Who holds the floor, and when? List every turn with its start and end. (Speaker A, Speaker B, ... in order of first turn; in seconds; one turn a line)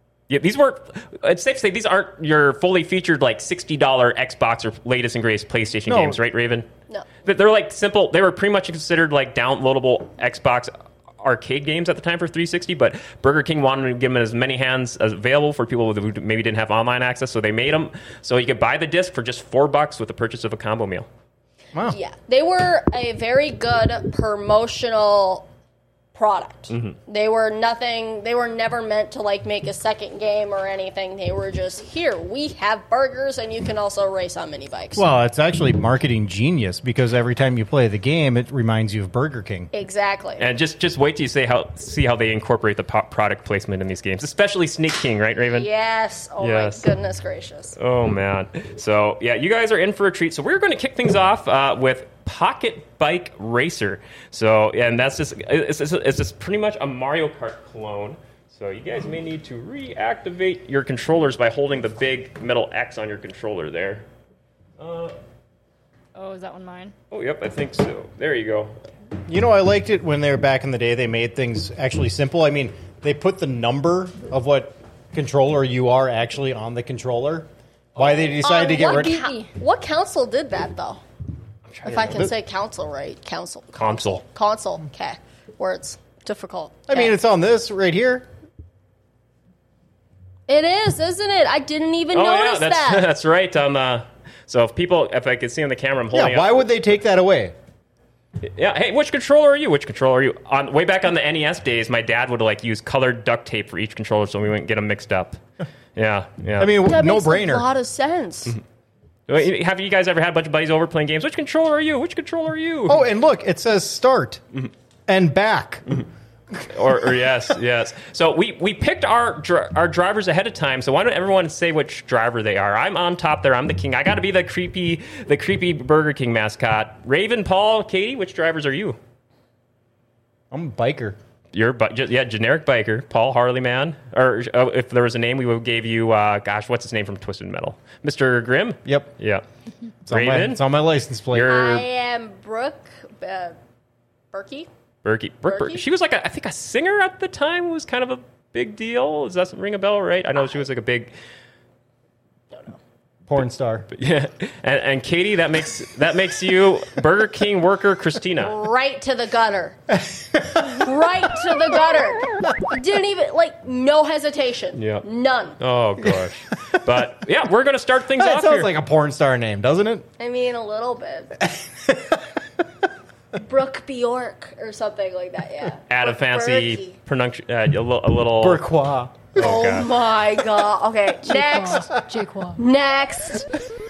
Speaker A: 0.3-6.7
Speaker B: 5.9-6.2
Speaker A: 7.2-21.1
Speaker C: 21.9-25.5
Speaker C: 26.1-35.1
Speaker A: 26.7-27.0
Speaker B: 35.0-39.7
Speaker C: 39.7-40.5
Speaker A: 40.4-45.7
Speaker C: 45.5-47.8
Speaker A: 46.4-46.9
Speaker A: 47.8-64.1
Speaker A: 64.8-65.2
Speaker D: 66.2-67.0
Speaker A: 67.1-68.8
Speaker B: 69.3-79.2
Speaker D: 78.3-79.5
Speaker C: 78.4-81.0
Speaker A: 81.7-82.3
Speaker C: 81.8-87.1
Speaker A: 83.8-84.2
Speaker B: 86.9-88.3
Speaker C: 90.5-93.1
Speaker A: 92.1-96.7
Speaker B: 96.1-97.5
Speaker A: 98.4-105.4
Speaker A: 106.0-106.7
Speaker B: 106.6-107.7
Speaker C: 106.8-108.6
Speaker A: 109.3-113.0
Speaker B: 112.9-114.4
Speaker B: 115.1-115.8
Speaker A: 116.6-129.0
Speaker B: 130.5-131.2
Speaker A: 131.5-139.4
Speaker A: 140.1-140.6
Speaker B: 140.1-141.6
Speaker A: 141.3-141.8
Speaker C: 141.5-143.6
Speaker C: 144.3-144.7
Speaker A: 145.0-151.1
Speaker C: 145.5-145.8
Speaker C: 152.5-152.8
Speaker B: 153.3-153.9
Speaker A: 153.9-158.6
Speaker C: 158.4-159.8
Speaker B: 159.9-161.5
Speaker C: 160.6-165.6
Speaker A: 164.8-165.1
Speaker A: 165.6-168.7
Speaker B: 166.1-166.8
Speaker B: 168.2-170.1
Speaker C: 170.2-171.3
Speaker B: 171.4-172.4
Speaker C: 173.3-177.0
Speaker A: 175.9-178.6
Speaker B: 178.4-179.8
Speaker A: 179.3-179.9
Speaker C: 179.4-181.9
Speaker D: 181.3-182.6
Speaker C: 182.6-183.6